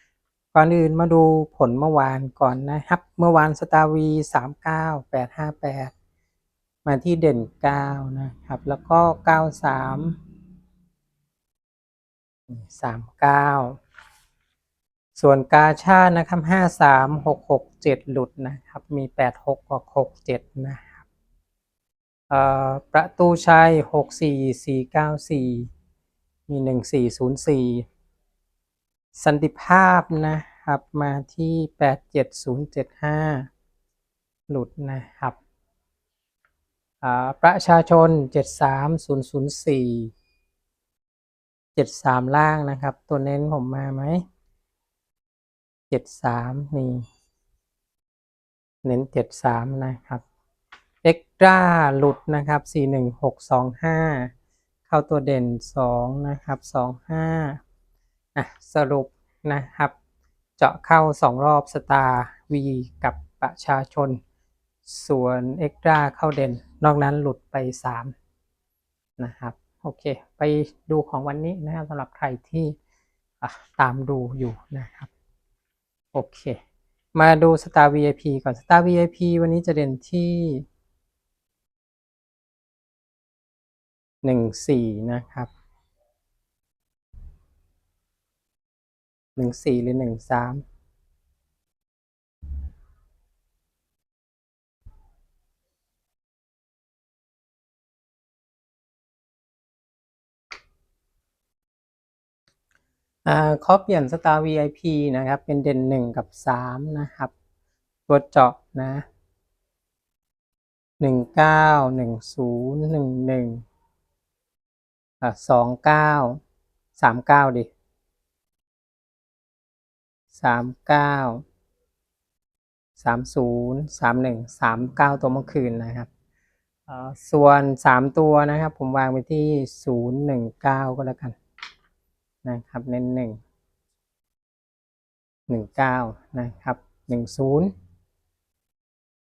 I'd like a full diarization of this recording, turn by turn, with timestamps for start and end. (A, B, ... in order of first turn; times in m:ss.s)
0:00.5-0:05.9 A
0:06.8-0:10.2 A
0:12.5-0:13.8 A
0:15.2-0:21.1 A
0:22.3-0:25.7 A
0:26.5-0:27.9 A
0:29.2-0:33.5 A
0:34.5-0:35.4 A
0:37.0-0:40.1 A
0:41.8-0:44.2 A
0:45.9-0:47.0 A
0:48.8-0:50.2 A
0:51.0-0:54.3 A
0:54.9-0:57.6 A
0:58.4-1:00.0 A
1:00.6-1:04.2 A
1:04.9-1:08.1 A
1:09.2-1:12.8 A
1:13.4-1:15.1 A
1:16.1-1:16.6 A
1:17.2-1:20.7 A
1:24.2-1:25.5 A
1:29.4-1:30.6 A
1:43.2-1:47.3 A
1:48.1-1:49.0 A
1:51.0-1:53.6 A
1:55.2-1:56.4 A
1:57.0-1:57.7 A
2:00.3-2:01.4 A
2:03.0-2:06.1 A
2:06.9-2:11.4 A
2:12.4-2:13.4 A
2:15.5-2:17.7 A